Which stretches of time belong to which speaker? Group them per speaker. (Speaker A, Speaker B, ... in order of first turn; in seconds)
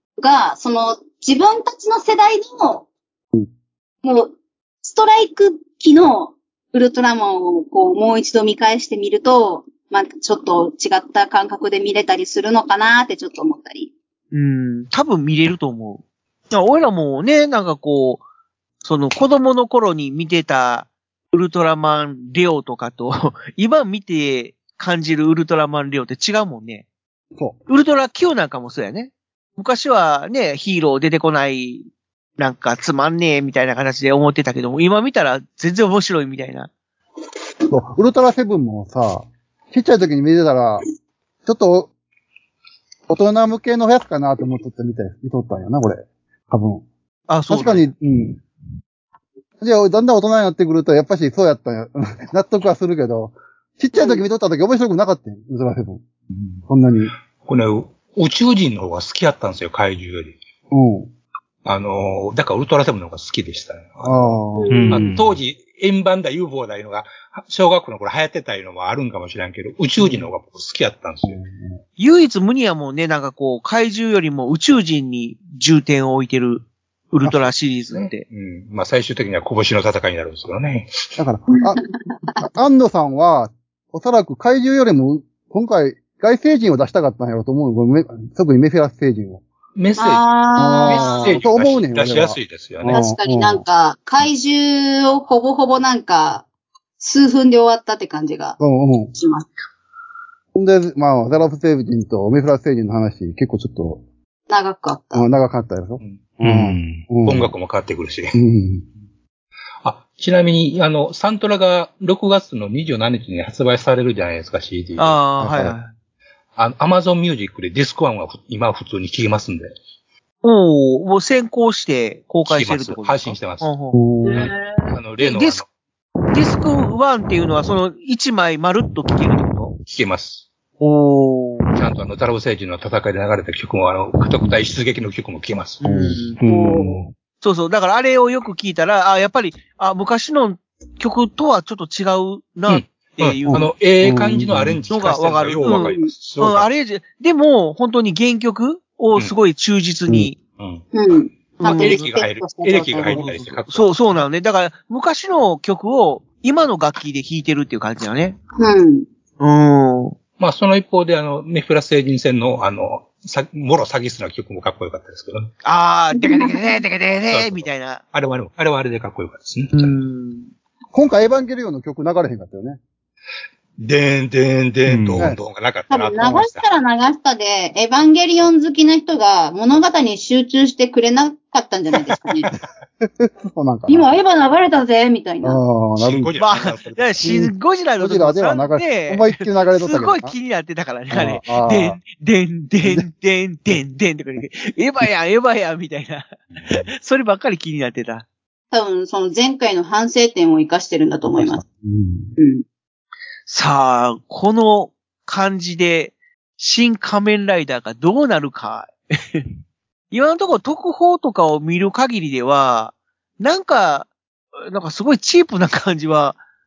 Speaker A: 0.2-2.9, 4.0-13.9, 54.0-54.2, 64.6-65.0, 81.6-82.4, 90.0-91.4, 92.9-96.5, 97.0-98.6, 99.1-99.6, 104.5-105.3, 124.2-125.0, 136.5-136.9, 145.7-146.1, 150.9-153.2, 158.6-159.1, 166.2-166.5, 175.9-182.5, 183.9-185.6, 198.7-201.6, 202.4-202.6
Speaker B: 14.3-18.2, 18.8-26.9, 27.7-31.8, 32.4-36.7, 47.3-47.9, 72.0-78.2, 115.0-115.9, 120.4-124.0, 125.2-125.6, 126.3-129.7, 130.8-131.7, 135.8-136.4, 137.4-143.7, 144.9-150.4, 151.6-152.1, 153.1-158.4, 159.4-160.2, 165.6-168.0, 169.7-170.5, 186.4-198.2, 203.5-209.5, 210.1-214.1, 214.6-216.4
Speaker C: 37.7-40.8, 41.5-41.9, 43.1-46.9, 47.5-48.4, 49.6-56.0, 56.7-57.1, 60.7-61.1, 64.0-65.1, 70.0-70.3, 71.2-71.8, 81.2-81.8, 82.4-89.4, 90.6-93.6, 98.6-99.1, 100.5-104.0, 105.1-107.5, 108.3-108.8, 115.4-115.8, 123.9-124.5, 135.8-136.3, 143.5-144.8, 170.9-172.8, 183.0-184.1, 185.4-186.3, 187.2-190.3, 191.1-192.0, 201.3-202.3
Speaker D: 56.3-56.6, 57.4-60.4, 61.6-64.3, 64.9-71.4, 77.9-80.9, 89.8-90.3, 90.9-93.0, 107.2-108.4, 109.8-115.2, 116.6-119.7, 122.5-123.7, 124.9-125.7, 129.9-130.5, 131.7-135.8, 142.7-146.7, 150.6-150.9, 151.6-154.2, 160.4-165.5, 167.3-170.0, 173.8-176.6, 186.0-187.4
Speaker E: 64.7-65.4, 106.4-107.1, 136.4-137.1, 174.9-175.3